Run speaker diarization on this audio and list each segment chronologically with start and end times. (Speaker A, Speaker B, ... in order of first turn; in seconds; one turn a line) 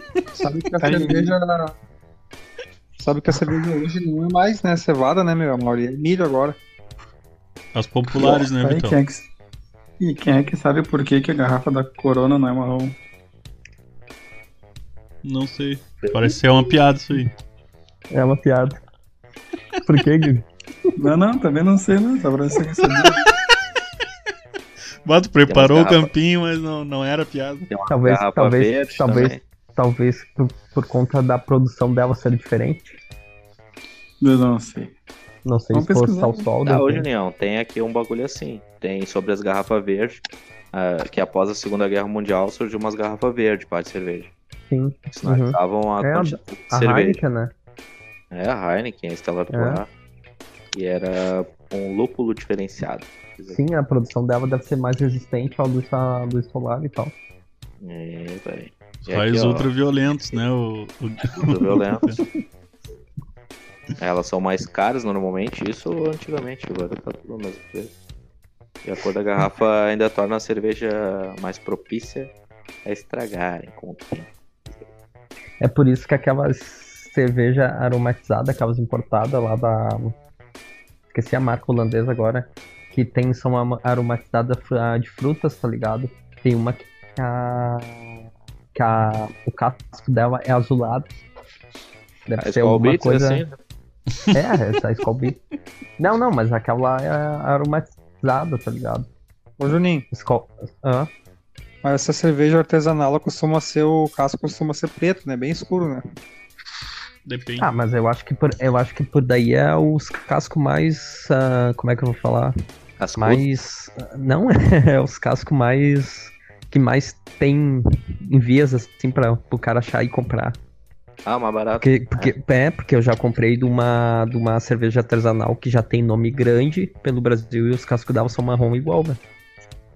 Speaker A: 0.3-1.8
Speaker B: 0.8-1.3
Speaker A: 3.0-6.6
Speaker C: 7.7-9.0
Speaker B: 8.1-9.3
Speaker B: 10.0-12.9
Speaker C: 15.2-17.3
Speaker D: 16.0-16.3
Speaker E: 18.1-18.8
Speaker E: 19.8-20.9
Speaker B: 21.0-23.2
Speaker C: 25.0-27.7
Speaker D: 25.5-26.1
Speaker D: 27.7-29.4
Speaker E: 27.9-33.0
Speaker B: 34.2-34.9
Speaker E: 35.4-37.1
Speaker B: 35.7-36.5
Speaker D: 36.6-44.3
Speaker E: 44.7-47.5
Speaker D: 45.1-47.2
Speaker D: 48.3-49.9
Speaker E: 49.5-49.8
Speaker D: 50.7-53.6
Speaker E: 53.5-57.1
Speaker D: 57.8-59.7
Speaker C: 59.0-62.2
Speaker D: 61.3-62.1
Speaker D: 64.0-67.9
Speaker D: 68.8-72.3
Speaker D: 72.8-74.3
Speaker E: 75.6-80.1
Speaker E: 81.1-88.1
Speaker E: 88.7-91.1
Speaker E: 92.3-93.4
Speaker D: 92.4-93.6
Speaker E: 94.3-95.4
Speaker E: 96.0-99.1
Speaker A: 99.6-100.0
Speaker E: 100.1-101.1
Speaker A: 101.8-106.0
Speaker C: 107.2-107.7
Speaker E: 107.6-112.5
Speaker D: 113.0-113.4
Speaker E: 113.2-120.6
Speaker D: 121.2-122.3
Speaker E: 121.8-129.2